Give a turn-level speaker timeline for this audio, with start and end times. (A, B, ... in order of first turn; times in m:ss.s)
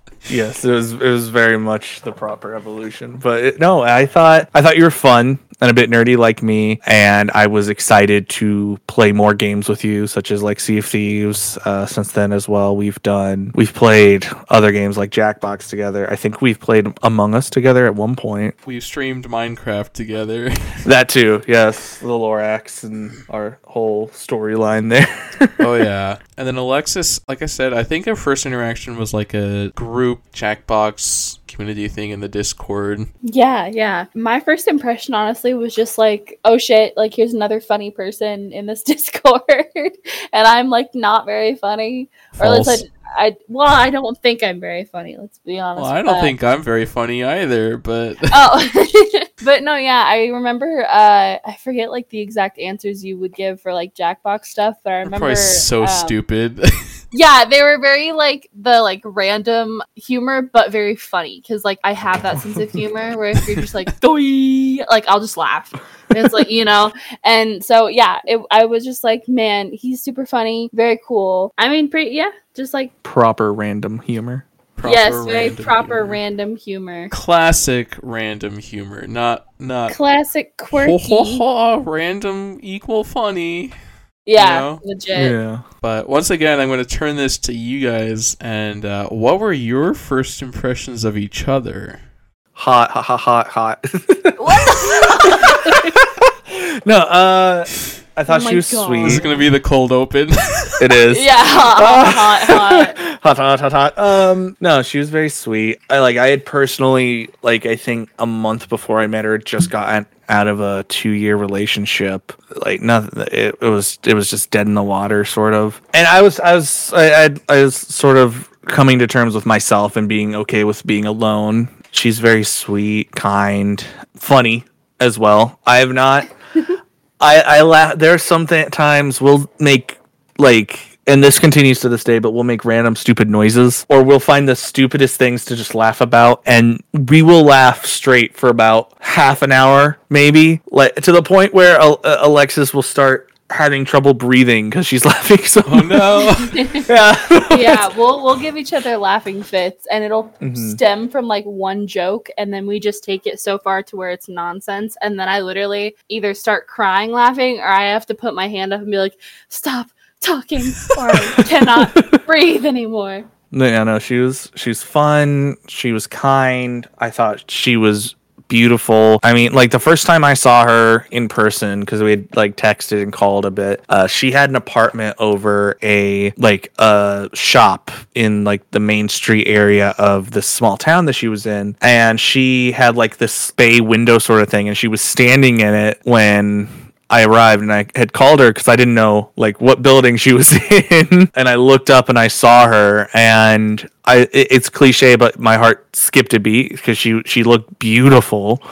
0:00.3-0:18.5 A
0:18.6-0:20.8 B
0:20.8-0:25.7 A
0:25.6-0:33.1 B
0:33.2-0:46.3 C
0:42.3-0:42.8 B
0:45.8-0:48.4 B
0:48.3-0:56.2 C
0:55.0-0:56.9 B
0:57.1-1:12.9 C
1:13.0-1:14.4 A
1:14.8-1:16.2 B
1:14.8-1:17.1 C
1:17.1-1:20.0 B
1:19.9-1:21.4 C
1:20.7-1:23.8 B
1:24.2-1:25.4 C
1:24.4-1:24.8 B
1:25.1-1:25.6 A
1:25.8-1:32.0 B
1:32.6-1:39.2 A
1:34.4-1:35.9 C
1:38.3-1:39.4 C
1:39.0-1:40.9 B
1:40.8-2:06.3 A
1:41.1-1:43.0 C
2:07.2-2:26.3 A
2:25.6-2:26.6 B
2:26.4-2:26.9 C
2:26.8-2:27.8 A
2:27.5-2:43.3 C
2:30.4-2:30.8 A
2:41.4-2:42.2 A
2:43.5-3:18.6 A